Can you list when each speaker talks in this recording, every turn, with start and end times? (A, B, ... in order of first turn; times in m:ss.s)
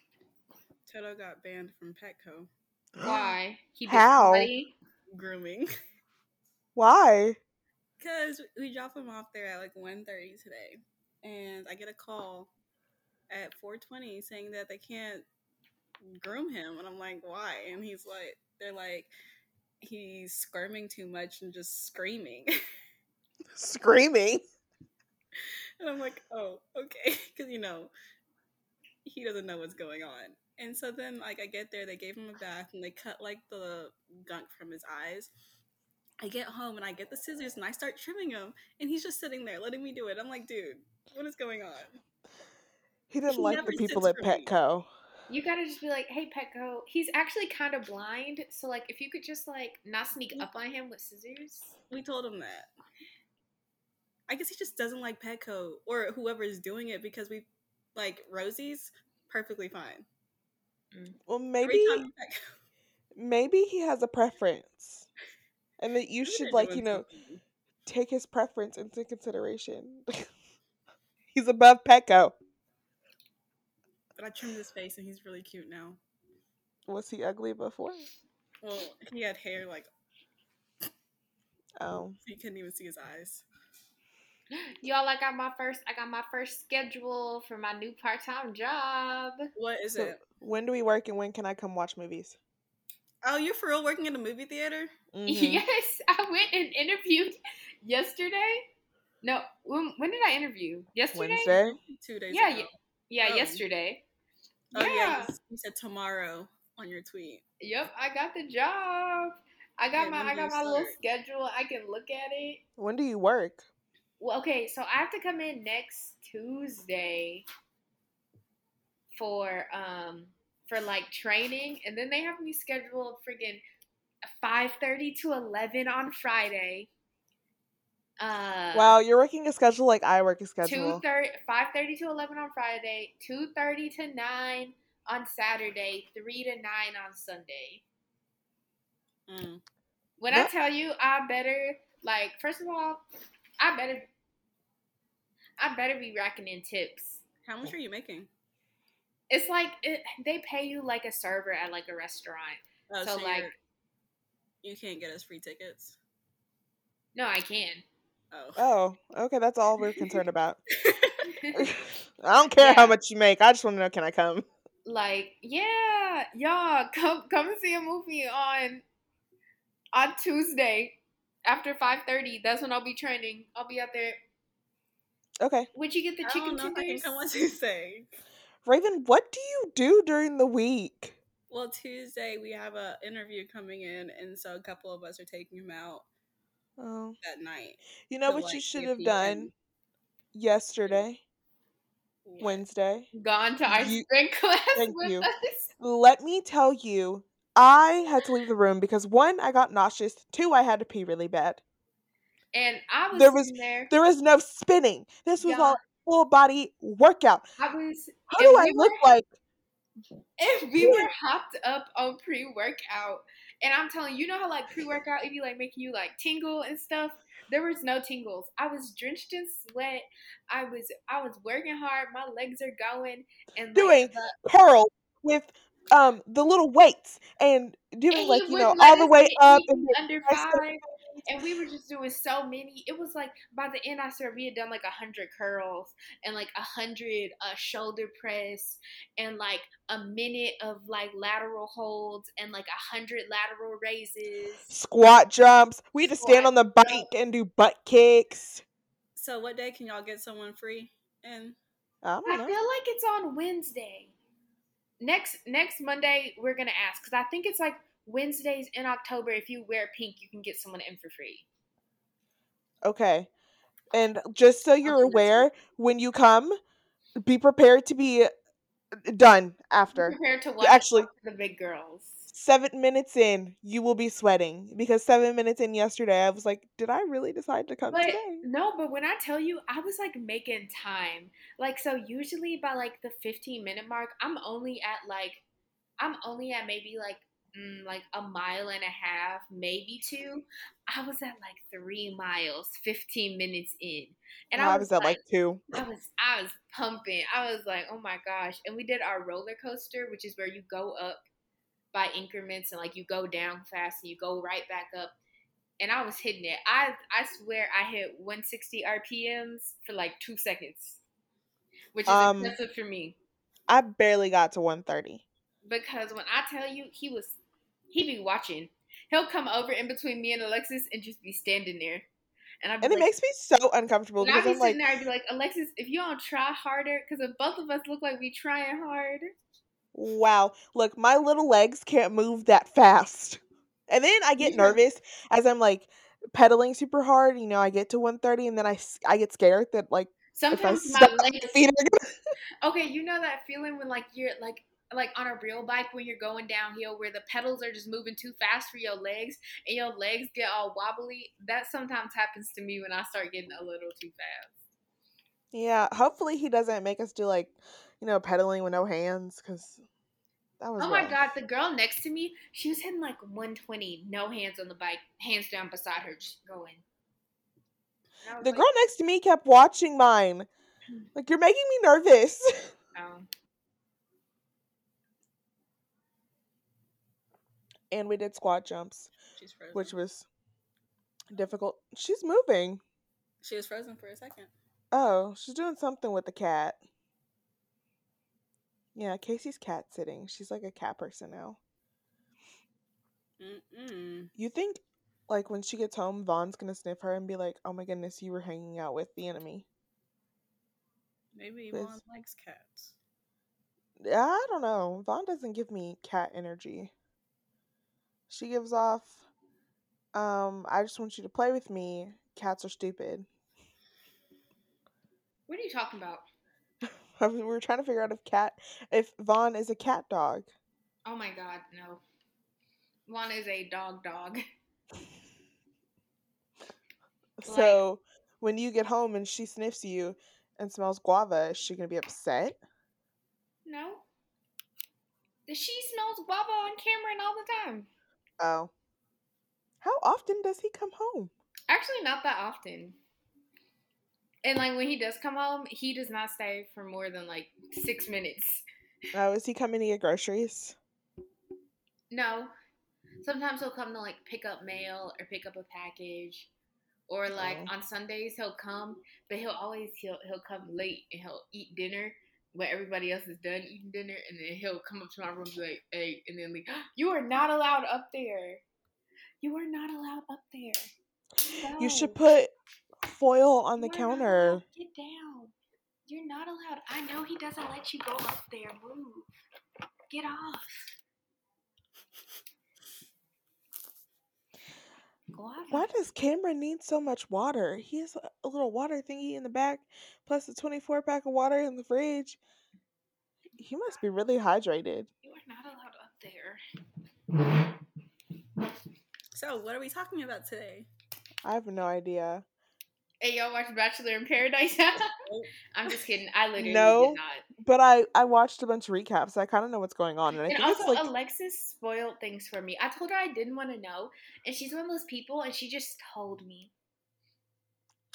0:00.8-0:02.5 A
0:03.0-0:03.4 B
0:03.0-0:04.7 C
0:03.9-0:04.5 B
0:05.1-0:05.7 A
0:06.7-0:07.4 B
0:08.0-0:12.5 A
0:13.3-0:15.2 A
0:16.0-0:19.1 A
0:19.8-0:22.5 A
0:23.5-0:24.4 B
0:25.8-0:27.9 A
0:29.0-0:35.3 A
0:36.2-0:42.0 A
0:43.1-0:44.9 B
0:43.3-0:44.5 A
0:45.3-0:51.7 C
0:51.9-0:52.7 A
0:54.3-1:00.0 A
1:00.9-1:01.2 C
1:01.3-1:02.0 B
1:01.6-1:02.4 A
1:03.1-1:05.0 B
1:05.8-1:07.0 B
1:06.2-1:07.4 A
1:07.8-1:10.2 B
1:11.3-1:12.3 B
1:14.1-1:16.0 A
1:16.9-1:18.1 B
1:18.6-1:19.9 A
1:21.8-1:22.2 B
1:22.2-1:23.4 A
1:24.5-1:29.4 C
1:29.6-1:30.2 A
1:29.9-1:32.4 B
1:33.2-1:34.9 A
1:35.1-1:35.6 B
1:35.3-1:38.6 C
1:39.2-1:41.6 C
1:41.1-1:41.8 B
1:41.5-1:43.6 A
1:42.3-1:44.0 C
1:44.7-1:47.4 A
1:44.7-1:45.3 C
1:47.6-1:52.6 C
1:50.0-1:51.0 A
1:52.8-1:53.6 B
1:54.2-1:57.4 C
1:59.1-2:03.6 C
2:04.3-2:06.9 C
2:08.2-2:09.0 C
2:08.7-2:11.0 B
2:10.6-2:17.8 C
2:19.3-2:19.6 A
2:20.2-2:23.0 C
2:23.6-2:24.1 C
2:25.6-2:27.2 C
2:27.4-2:28.3 A
2:29.3-2:33.5 C
2:32.9-2:33.5 A
2:34.6-2:36.0 A
2:37.1-2:37.8 C
2:38.3-2:38.6 A
2:38.6-2:40.6 B
2:40.8-2:41.2 A
2:41.3-2:41.6 C
2:41.5-2:44.4 B
2:42.6-2:43.0 C
2:44.8-2:48.8 C
2:49.9-2:54.2 C
2:55.4-2:55.7 B
2:55.7-2:57.2 C
2:56.2-2:58.2 A
2:58.6-3:01.2 B
3:01.5-3:06.0 A
3:06.8-3:07.2 B
3:07.2-3:09.5 A
3:08.1-3:09.5 B
3:10.3-3:11.2 B
3:12.2-3:12.6 A
3:12.4-3:13.1 B
3:13.1-3:15.7 C
3:13.7-3:14.0 B
3:14.7-3:15.2 B
3:15.8-3:21.6 B
3:22.5-3:23.9 C
3:23.1-3:27.4 B
3:25.4-3:25.8 C
3:27.6-3:29.1 C
3:28.3-3:29.3 B
3:30.4-3:44.3 C
3:30.8-3:31.1 B
3:43.7-3:50.6 B
3:48.1-4:04.7 C
4:04.7-4:08.6 B
4:06.0-4:07.0 C
4:09.2-4:11.6 A
4:12.0-4:12.5 B
4:12.2-4:14.1 C
4:15.0-4:21.4 C
4:22.8-4:23.3 B
4:23.9-4:26.6 B
4:24.8-4:25.5 C
4:27.2-4:28.3 B
4:29.0-4:31.1 B
4:29.9-4:32.3 C
4:32.3-4:38.4 B
4:37.9-4:45.4 C
4:46.0-4:55.2 C
4:54.5-4:55.6 B
4:55.7-5:01.2 C
5:01.9-5:05.2 C
5:05.8-5:11.0 C
5:11.9-5:13.2 C
5:12.0-5:12.6 B
5:13.7-5:15.2 B
5:15.6-5:17.4 C
5:17.9-5:22.1 C
5:22.6-5:23.1 C
5:22.8-5:24.8 B
5:24.2-5:29.3 C
5:29.9-5:42.2 B
5:34.4-5:34.8 C
5:40.3-5:41.6 C
5:42.6-5:54.6 C
5:55.5-5:59.8 B
6:00.6-6:01.2 B
6:00.8-6:06.8 C
6:08.2-6:08.7 C
6:08.4-6:10.5 B
6:11.1-6:12.7 B
6:12.9-6:13.3 C
6:17.9-6:19.1 B
6:19.3-6:19.9 A
6:19.7-6:20.2 B
6:21.3-6:22.8 B
6:23.4-6:24.5 A
6:24.9-6:26.8 B
6:28.9-6:31.6 B
6:33.4-6:34.3 A
6:34.4-6:39.6 B
6:41.3-6:42.9 A
6:41.7-6:42.0 B
6:44.0-6:46.9 B
6:48.3-6:49.2 B
6:50.1-6:53.3 B
6:55.5-6:56.2 C
6:56.8-7:00.5 B
7:01.0-7:02.0 C
7:03.1-7:04.4 C
7:07.4-7:12.6 B
7:07.4-7:07.8 C
7:13.6-7:14.0 C
7:15.5-7:17.9 C
7:18.4-7:18.7 B
7:19.8-7:21.3 B
7:21.7-7:23.0 C
7:24.4-7:28.6 C
7:29.1-7:30.8 B
7:32.1-7:32.5 C
7:33.2-7:36.5 C
7:37.1-7:48.6 C
7:37.3-7:37.7 B
7:49.4-7:50.9 C
7:51.5-7:52.2 C
7:51.8-7:54.6 B
7:53.8-7:55.5 C
7:56.1-7:59.3 C
8:00.1-8:00.9 C
8:05.3-8:05.9 C
8:05.7-8:12.4 B
8:13.6-8:15.1 B
8:15.2-8:16.6 C
8:19.3-8:20.9 A
8:21.4-8:22.4 B
8:23.2-8:25.1 C
8:25.2-8:25.5 A
8:25.7-8:27.4 C
8:26.6-8:31.1 B
8:30.4-8:36.7 C